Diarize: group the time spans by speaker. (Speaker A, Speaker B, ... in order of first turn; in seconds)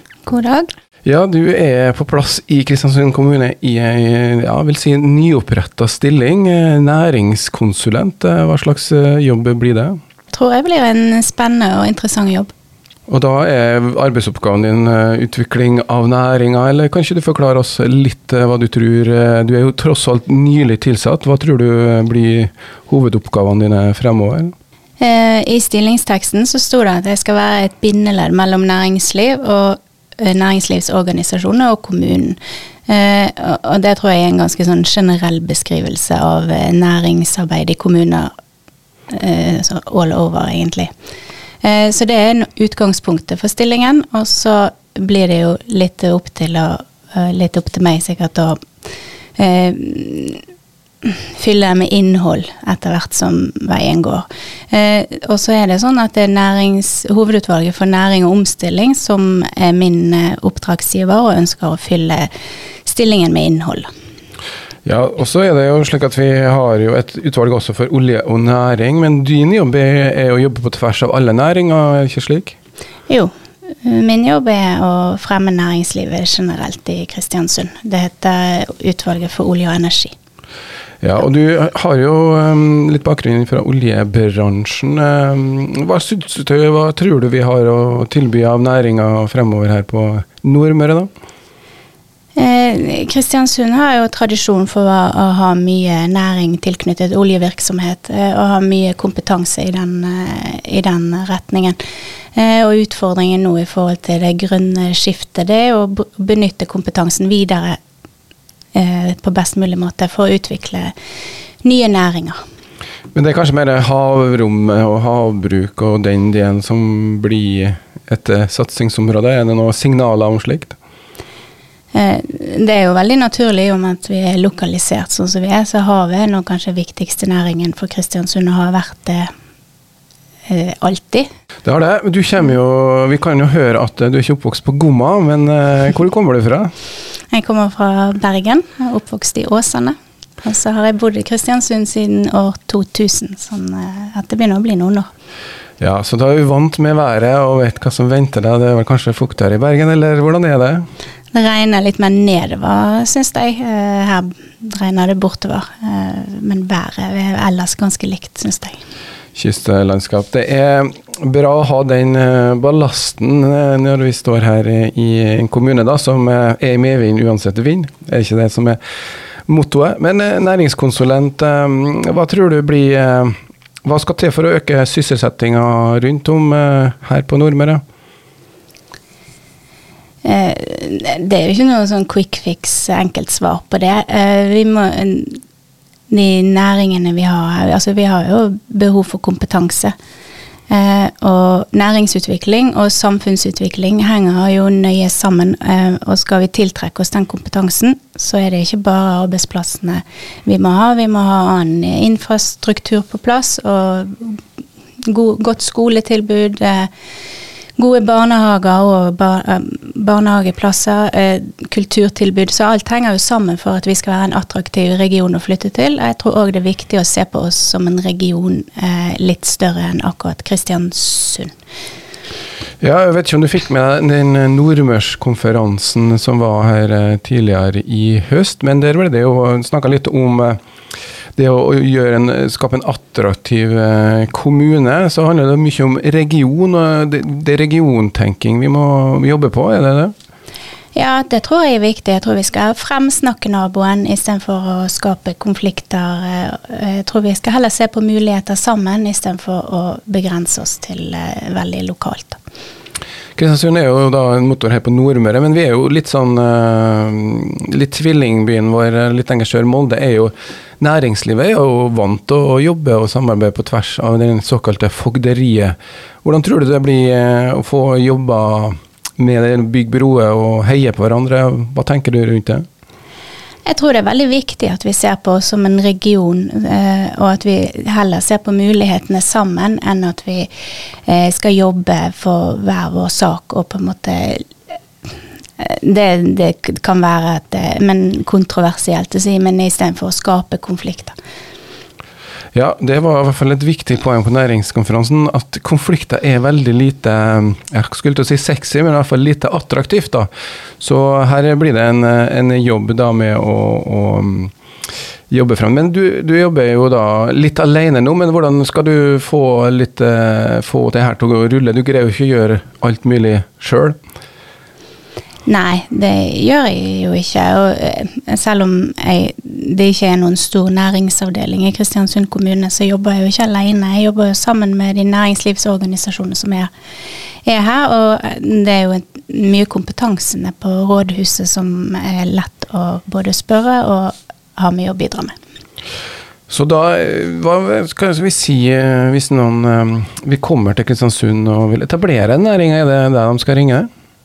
Speaker A: 0.3-0.7, 10.3-12.5, 25.0-38.3, 39.1-40.9, 41.6-48.6, 49.4-50.4, 51.0-62.3, 62.9-63.9, 73.8-80.1, 92.4-101.8, 102.3-107.8, 108.7-110.9, 111.6-112.4, 121.9-129.3, 130.5-131.3, 137.3-145.1, 151.3-158.8, 180.2-185.4, 186.1-189.9, 190.7-204.4, 205.0-206.9, 207.8-221.5, 240.9-252.4, 273.7-280.5, 281.1-284.5, 285.6-291.2, 315.5-326.7, 327.4-335.4
Speaker B: 1.1-10.0, 13.1-24.5, 64.8-72.6, 81.0-91.1, 113.1-120.8, 131.7-136.7, 145.8-150.9, 159.3-168.8, 169.5-177.8, 222.8-230.6, 231.4-240.1, 253.4-272.7, 292.5-300.3, 300.8-304.5, 305.3-314.0, 336.5-343.9